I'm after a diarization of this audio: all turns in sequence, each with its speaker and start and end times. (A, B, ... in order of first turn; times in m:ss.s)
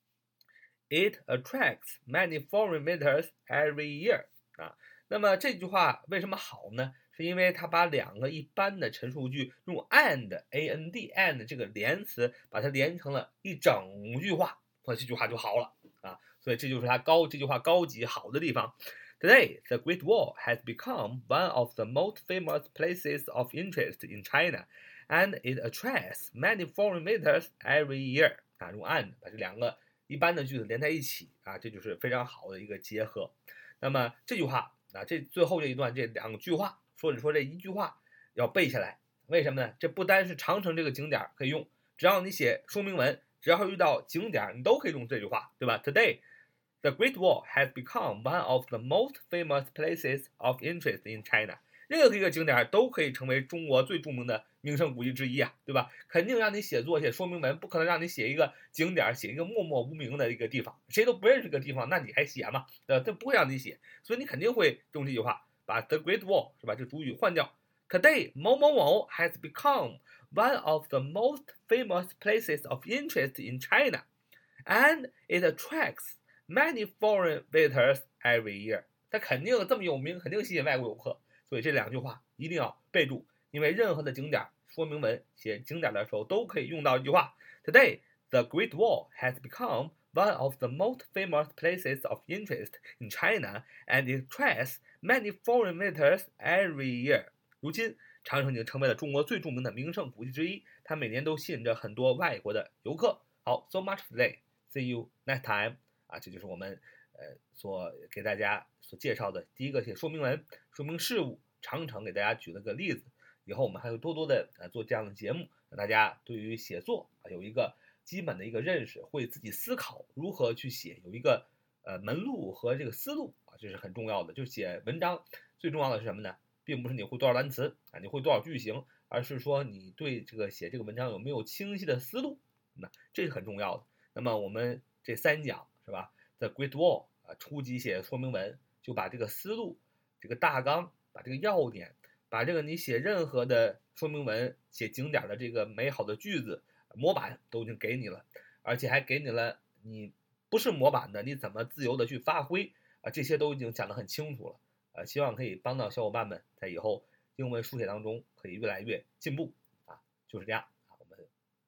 0:00.9-0:46.2 A
0:46.8-1:14.0 A
1:14.6-2:41.3 A